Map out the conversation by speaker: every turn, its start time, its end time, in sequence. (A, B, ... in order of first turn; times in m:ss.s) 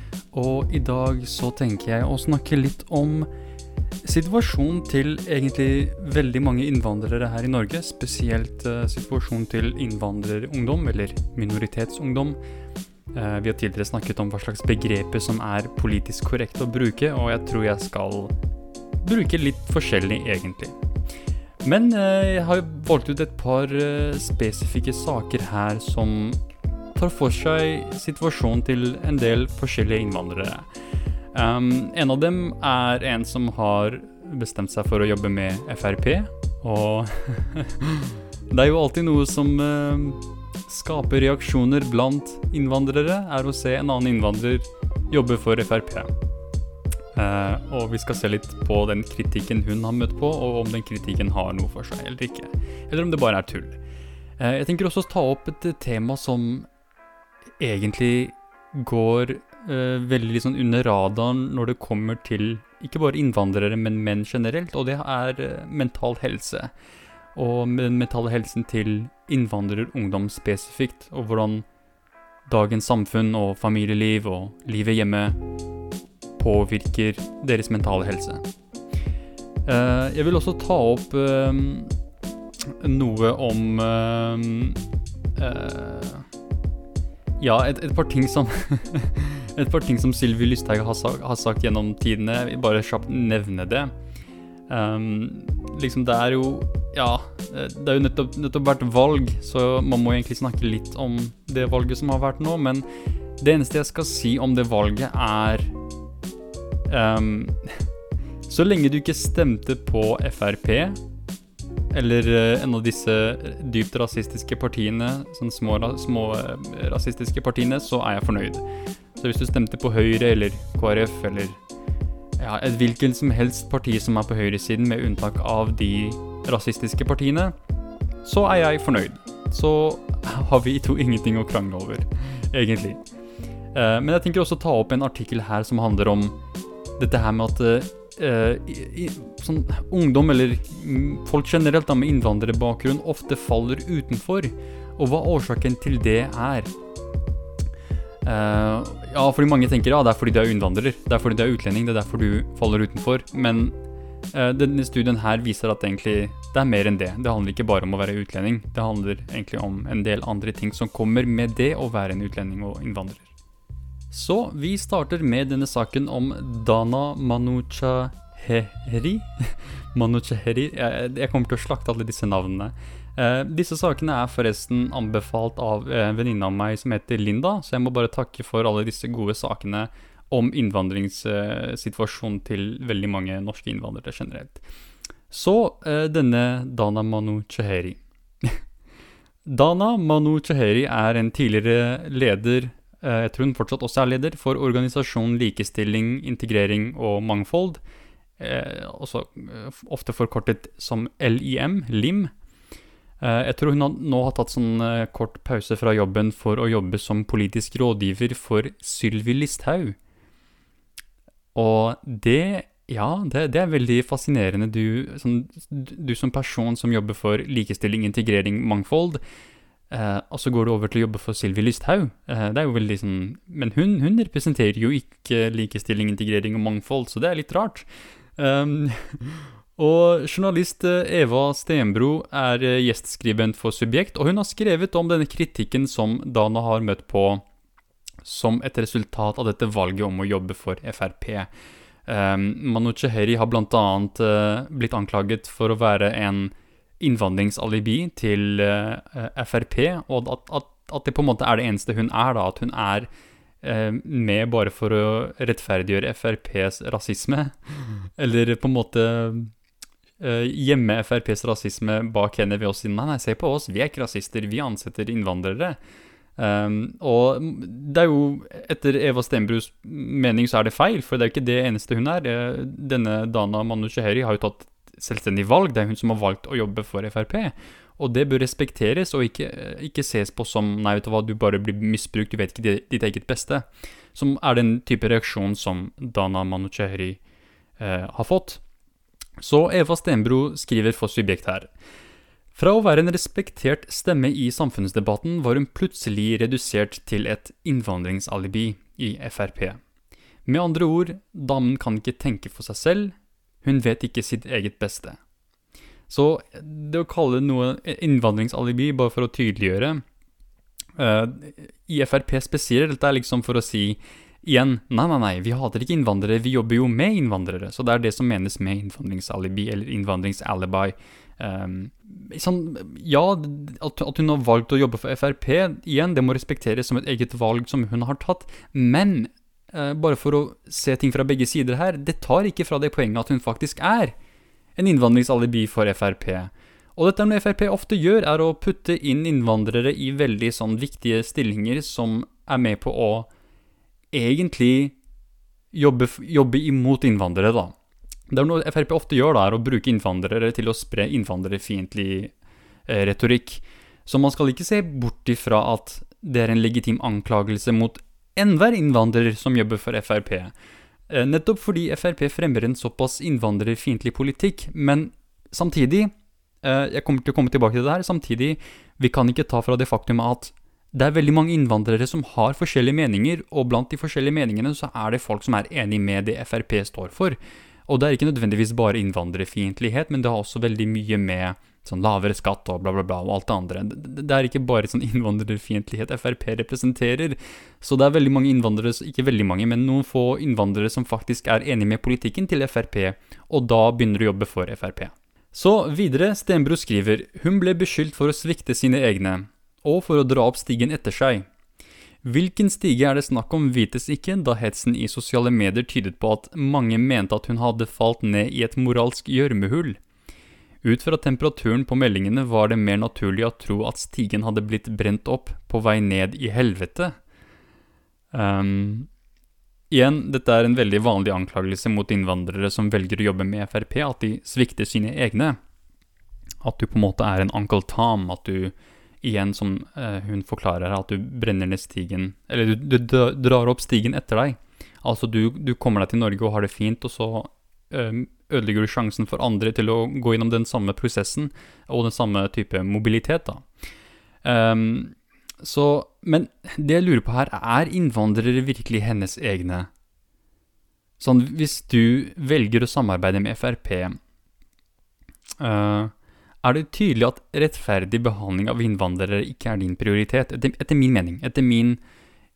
0:00.3-0:03.3 A
0:04.0-0:12.4 A
0:13.1-0:18.3 A
0:19.0-0:20.8 A
0:21.6-0:26.4 A
0:27.0-0:30.6 A
0:31.3-0:46.1 A
0:47.1-0:53.8 A
0:54.4-0:56.7 A
0:57.6-1:06.7 A
1:07.4-1:11.6 A
1:12.5-1:15.4 A
1:16.4-1:18.4 A
1:19.6-1:21.9 A
1:22.7-1:24.8 A
1:25.4-1:26.3 A
1:27.4-1:33.9 A
1:34.7-1:42.8 A
1:43.4-1:45.7 A
1:46.9-1:47.6 A
1:48.4-1:51.0 A
1:51.9-2:01.6 A
2:02.4-2:07.5 A
2:08.2-2:13.0 A
2:13.7-2:16.4 A
2:17.0-2:26.7 A
2:28.2-2:33.8 A
2:34.3-2:43.3 A
2:44.1-3:04.6 A
3:05.3-3:08.6 A
3:09.4-3:17.8 A
3:18.4-3:22.3 A
3:23.2-3:30.0 A
3:31.5-3:39.2 A
3:39.9-3:57.4 A
3:58.2-4:01.5 A
4:02.0-4:13.1 A
4:13.6-4:19.5 A
4:20.2-4:25.8 A
4:26.4-4:47.2 A
4:47.8-4:48.6 A
4:49.4-4:51.7 A
4:52.5-4:59.8 A
5:00.4-5:05.2 A
5:06.1-5:10.0 A
5:11.0-5:34.1 A
5:34.8-5:43.3 A
5:44.1-5:45.0 A
5:45.7-5:47.7 A
5:48.3-5:52.3 A
5:52.9-6:00.5 A
6:01.1-6:17.4 A
6:17.9-6:41.5 A
6:42.2-6:50.0 A
6:50.8-6:57.1 A
6:58.3-6:59.1 A
6:59.9-7:05.6 A
7:06.6-7:23.6 A
7:24.4-7:29.9 A
7:31.2-7:34.2 A
7:35.6-7:36.1 A
7:36.6-7:42.0 A